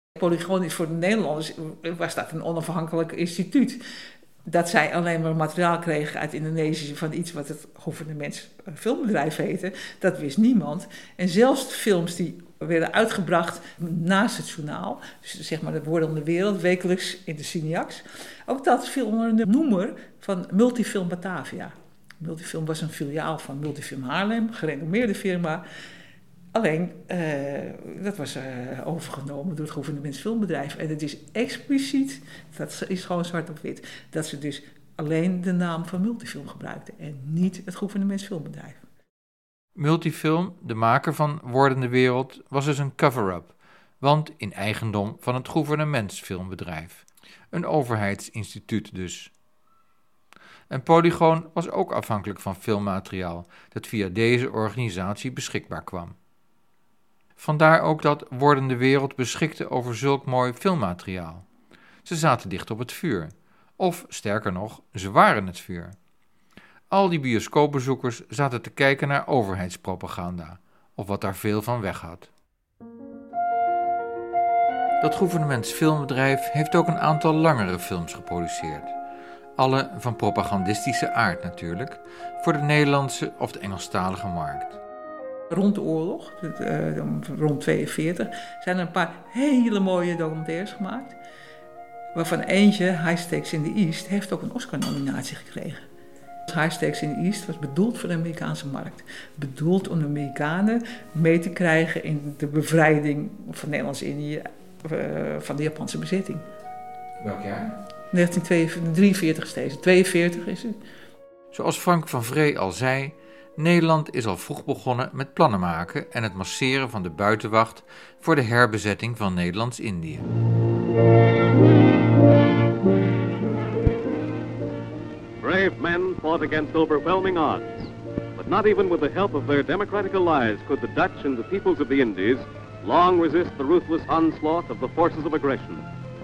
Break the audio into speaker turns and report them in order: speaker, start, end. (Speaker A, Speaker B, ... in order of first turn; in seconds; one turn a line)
Speaker A: 0.2-3.8
Speaker A: 4.5-25.6
Speaker A: 26.5-38.8
Speaker B: 39.8-49.3
Speaker B: 50.7-56.2
Speaker B: 57.4-61.5
Speaker B: 62.0-66.0
Speaker B: 66.9-72.3
Speaker B: 75.0-78.9
Speaker B: 79.6-84.8
Speaker A: 85.5-91.2
Speaker A: 92.2-95.8
Speaker A: 96.5-106.5
Speaker B: 107.2-107.7
Speaker A: 108.1-110.8
Speaker B: 111.5-120.3
Speaker C: 125.4-135.8